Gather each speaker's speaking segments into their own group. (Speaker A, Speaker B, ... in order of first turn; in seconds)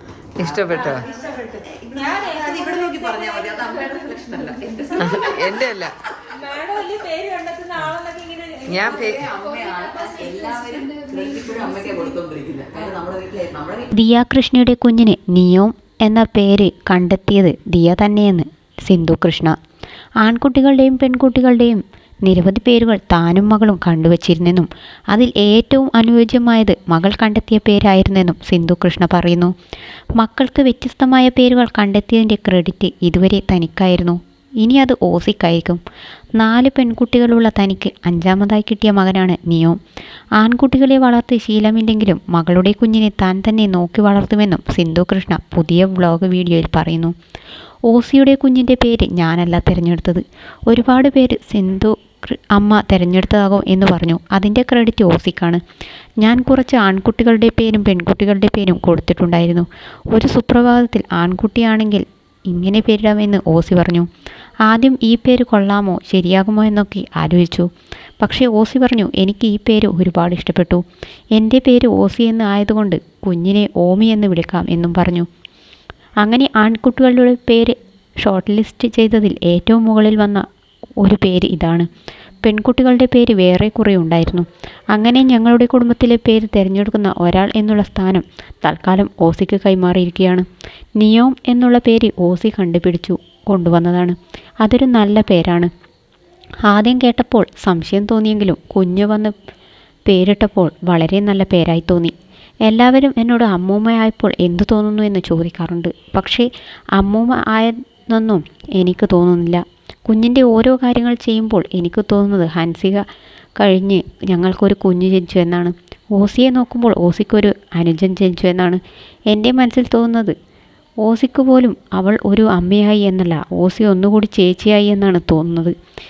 Speaker A: 0.4-1.1, 1.8-5.7, 8.7-13.9
Speaker B: 0.4-1.1, 5.0-5.9, 8.7-12.1
Speaker C: 0.7-3.6, 6.3-10.4
Speaker D: 13.9-19.5, 20.2-29.5, 30.2-35.8, 36.4-39.8, 40.4-47.1, 47.9-55.6, 56.2-64.1, 64.7-67.7, 68.2-70.8, 71.3-75.3, 76.2-80.4, 81.0-81.9, 82.4-90.5, 91.0-95.7, 96.7-99.3, 100.1-102.1, 102.7-113.0, 113.6-120.3, 121.0-125.7